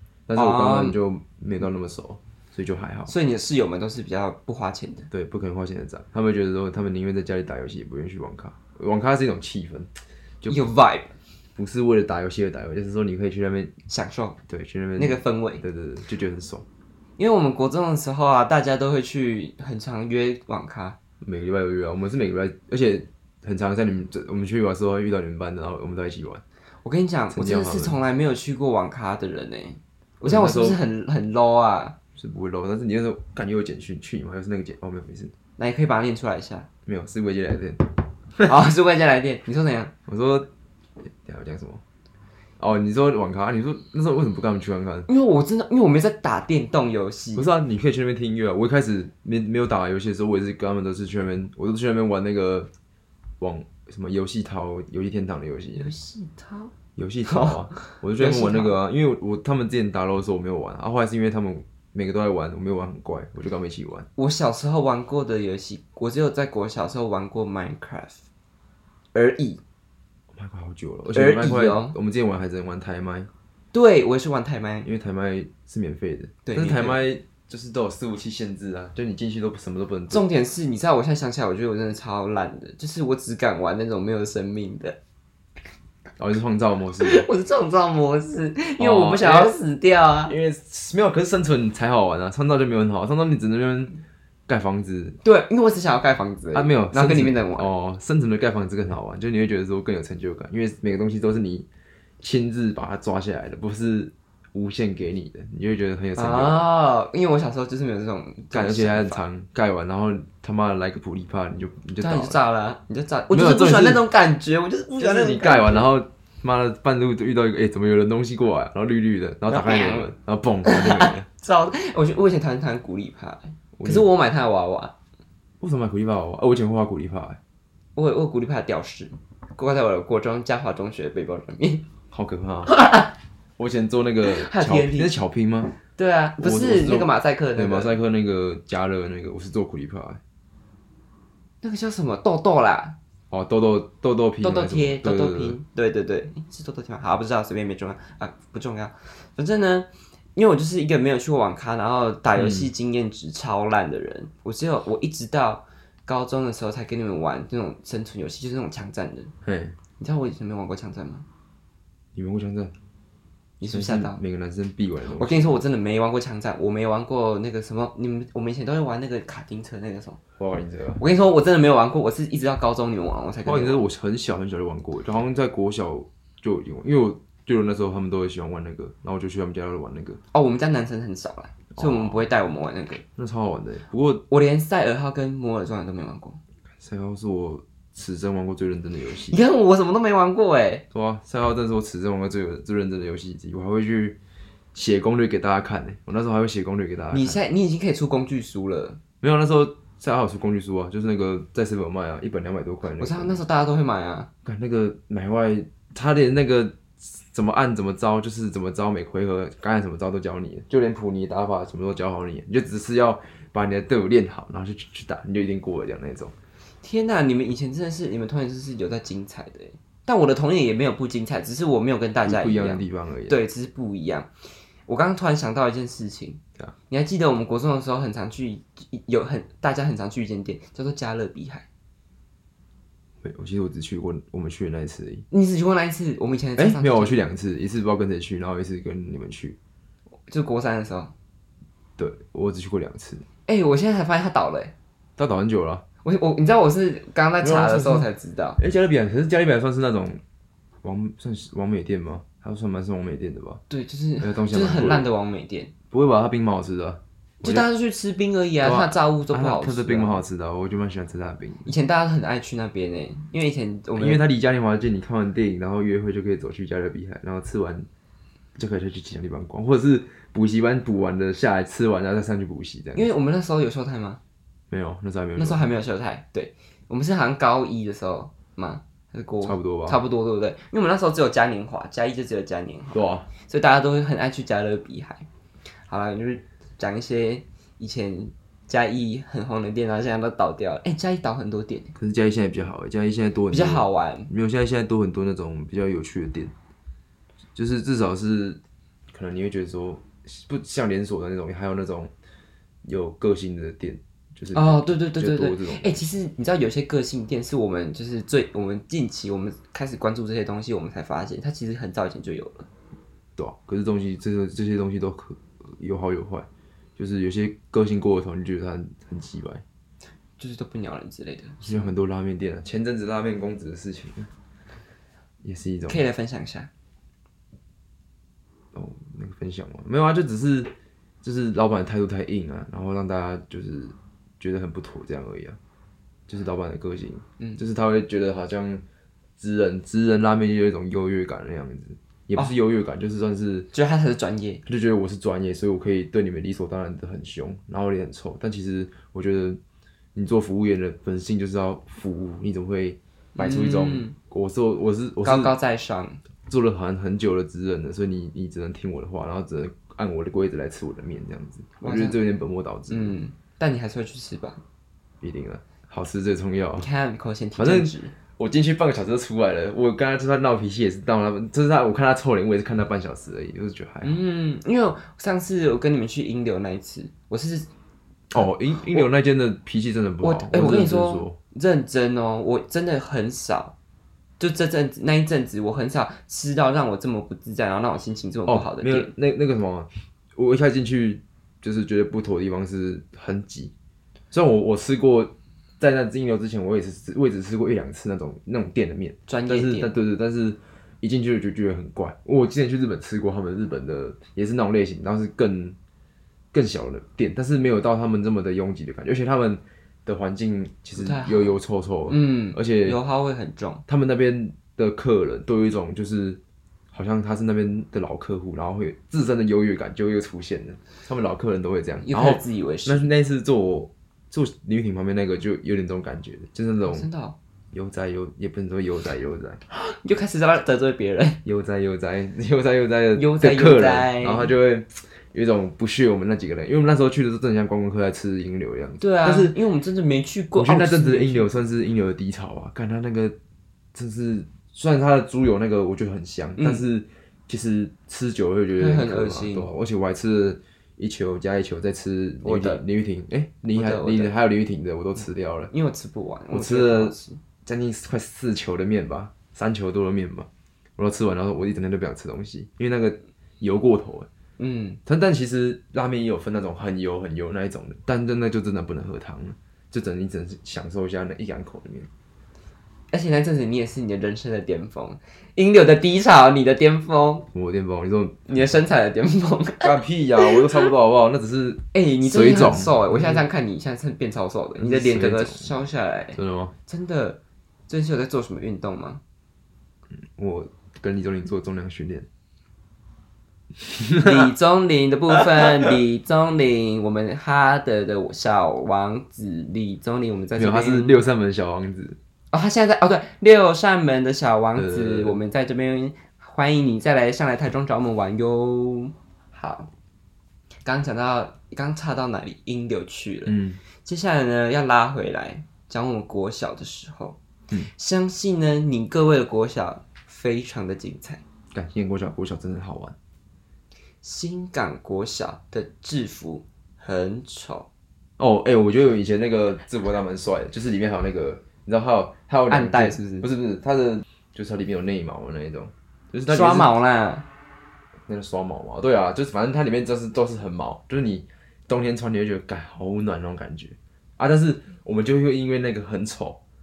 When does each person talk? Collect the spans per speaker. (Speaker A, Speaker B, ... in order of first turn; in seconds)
Speaker A: 0.3-3.1, 5.1-9.9, 11.6-13.7, 14.5-16.7, 21.2-26.4, 27.3-28.0, 30.2-30.8, 32.2-35.3, 36.9-38.5, 40.1-40.5, 41.2-41.8, 42.6-45.1, 47.4-52.7, 53.4-55.9, 57.0-64.1, 70.3-73.3, 74.8-80.2, 86.2-87.3, 88.8-89.6, 90.3-95.2, 96.5-101.7, 102.2-106.6, 108.5-112.4, 113.3-114.0, 115.0-121.3, 123.8-124.1, 125.6-127.4, 132.1-132.8, 133.6-135.8, 136.4-140.2, 143.3-145.6, 152.4-152.7, 159.4-159.8, 162.2-162.7, 163.7-165.6, 170.4-171.0, 173.4-180.2, 181.7-182.2, 183.2-184.2, 186.8-189.4, 190.9-194.2, 194.7-197.4, 199.2-203.4, 204.4-216.3, 222.2-223.4, 233.2-235.3, 236.6-239.6, 242.0-243.2, 245.2-245.8, 247.4-250.2, 250.8-253.6, 254.2-255.1, 255.9-257.7, 258.6-261.7, 264.0-267.9, 268.6-273.1, 274.7-275.7, 279.4-280.0, 282.9-283.3, 291.9-296.5, 297.6-298.6, 299.1-302.1, 302.8-306.1, 313.4-319.6, 321.6-324.3, 325.4-326.0, 328.7-330.7, 331.2-335.6, 336.3-338.8, 339.4-343.7, 344.7-349.6, 350.1-355.5, 356.5-363.2, 365.2-366.9, 367.6-374.2, 378.3-381.4, 388.5-393.7, 394.3-405.8, 406.5-413.0, 413.9-416.4, 416.9-427.1, 427.7-429.6, 431.4-439.6, 440.6-443.4, 443.9-455.7, 456.5-464.3, 465.1-472.1, 477.5-478.5, 479.8-483.4, 484.8-485.7, 486.4-486.7, 490.1-492.3, 493.8-494.5, 500.6-502.2, 504.8-505.4, 513.5-513.8, 521.7-523.2, 528.4-536.9, 538.3-546.6
Speaker B: 0.3-1.0, 3.1-5.1, 10.5-11.1, 13.9-14.4, 15.0-15.6, 17.2-21.0, 26.8-31.9, 35.6-36.7, 38.4-39.9, 45.1-47.5, 55.8-56.7, 57.3-58.8, 64.2-68.2, 69.1-69.6, 71.1-72.0, 73.7-74.9, 76.5-77.0, 80.1-85.0, 87.0-90.3, 95.2-97.7, 106.2-109.2, 112.0-115.9, 119.5-120.1, 120.7-125.0, 128.0-131.9, 132.7-133.1, 134.3-135.1, 136.0-138.0, 141.6-143.0, 144.4-159.3, 160.0-161.3, 163.6-164.2, 165.2-170.2, 171.0-173.8, 180.3-183.0, 184.3-186.4, 189.3-190.8, 197.1-199.0, 203.0-204.3, 216.8-224.3, 224.9-231.7, 235.3-237.2, 240.3-241.1, 243.5-244.7, 246.0-248.6, 253.7-255.7, 257.4-260.2, 261.7-264.2, 272.9-274.2, 275.4-285.3, 285.9-291.9, 293.5-294.3, 304.5-312.7, 320.4-321.9, 325.9-326.7, 343.7-344.6, 353.4-354.2, 355.2-356.2, 361.8-362.2, 362.9-364.6, 366.8-368.2, 374.0-377.7, 378.8-379.1, 380.2-383.8, 384.4-389.1, 399.3-399.9, 411.0-413.8, 422.1-423.1, 426.9-427.4, 429.7-431.4, 433.1-434.5, 439.0-441.5, 446.6-446.9, 448.8-449.7, 452.4-452.8, 453.7-454.3, 455.7-457.4, 464.6-465.0, 473.1-477.5, 478.5-480.9, 481.9-489.2, 494.2-501.2, 502.5-509.9, 510.9-517.4, 517.9-521.4, 524.2-527.9, 532.7-533.5, 536.5-537.5